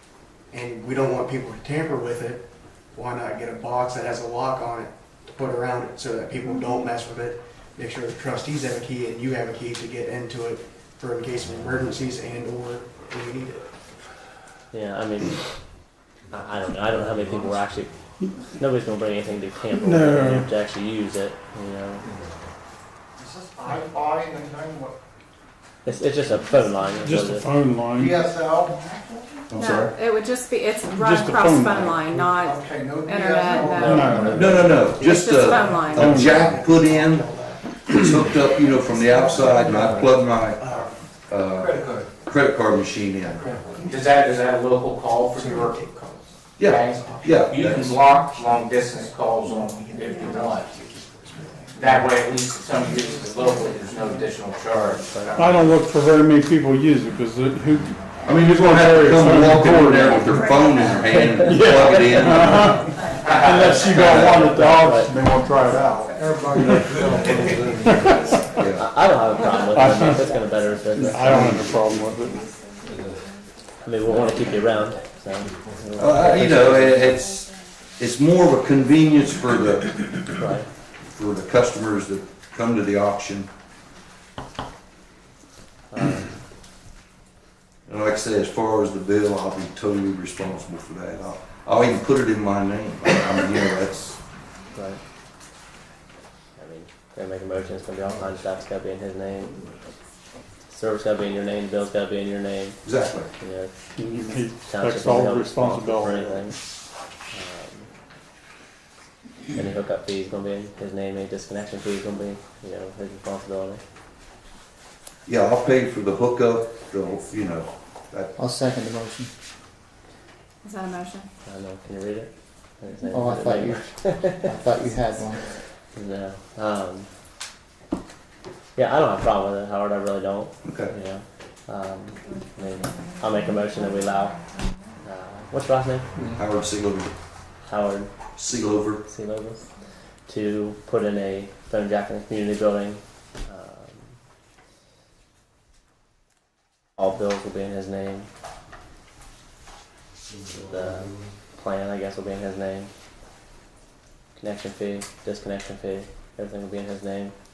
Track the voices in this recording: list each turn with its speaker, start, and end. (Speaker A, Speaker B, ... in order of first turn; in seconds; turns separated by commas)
Speaker A: 0.5-13.6, Speaker B: 14.7-15.3, Speaker B: 16.3-17.9, Speaker B: 18.6-22.0, Speaker C: 19.7-20.5, Speaker D: 23.2-24.9, Speaker B: 25.8-27.5, Speaker C: 27.0-28.2, Speaker D: 27.9-28.9, Speaker E: 29.5-29.9, Speaker F: 29.5-34.1, Speaker C: 30.9-32.4, Speaker D: 32.4-35.0, Speaker A: 33.5-34.7, Speaker C: 33.8-34.5, Speaker B: 34.0-34.8, Speaker E: 34.3-37.3, Speaker F: 35.0-36.6, Speaker A: 35.3-40.9, Speaker C: 36.0-36.4, Speaker E: 37.9-40.7, Speaker E: 41.3-43.5, Speaker A: 43.3-44.1, Speaker G: 43.9-45.9, Speaker A: 45.3-52.2, Speaker E: 46.6-48.0, Speaker G: 46.6-50.8, Speaker G: 51.7-55.6, Speaker A: 52.8-54.3, Speaker B: 55.1-55.5, Speaker C: 55.3-60.5, Speaker E: 58.2-62.9, Speaker B: 61.1-62.5, Speaker C: 61.4-66.8, Speaker G: 63.2-63.6, Speaker E: 63.8-64.5, Speaker B: 64.2-65.1, Speaker D: 66.2-68.4, Speaker C: 67.7-68.3, Speaker E: 68.6-68.8, Speaker B: 68.7-71.7, Speaker C: 69.7-70.3, Speaker C: 70.9-72.5, Speaker B: 73.8-77.1, Speaker E: 76.0-80.2, Speaker B: 80.3-80.7, Speaker E: 81.1-83.5, Speaker B: 85.9-86.4, Speaker E: 87.9-94.2, Speaker B: 94.7-95.0, Speaker B: 96.6-99.5, Speaker B: 100.7-102.8, Speaker E: 102.8-103.3, Speaker B: 103.4-103.7, Speaker C: 104.0-106.5, Speaker B: 104.6-106.6, Speaker B: 107.3-107.9, Speaker B: 109.5-113.8, Speaker E: 115.2-118.3, Speaker H: 118.4-119.3, Speaker F: 120.6-121.3, Speaker B: 121.5-122.3, Speaker B: 122.8-124.5, Speaker H: 123.1-125.4, Speaker B: 126.0-127.1, Speaker B: 128.8-134.4, Speaker E: 130.6-130.9, Speaker B: 135.0-136.1, Speaker E: 136.3-137.1, Speaker B: 137.6-138.1, Speaker E: 138.3-139.0, Speaker B: 139.0-139.6, Speaker B: 140.3-144.0, Speaker B: 147.0-148.3, Speaker B: 150.5-152.9, Speaker B: 154.3-157.3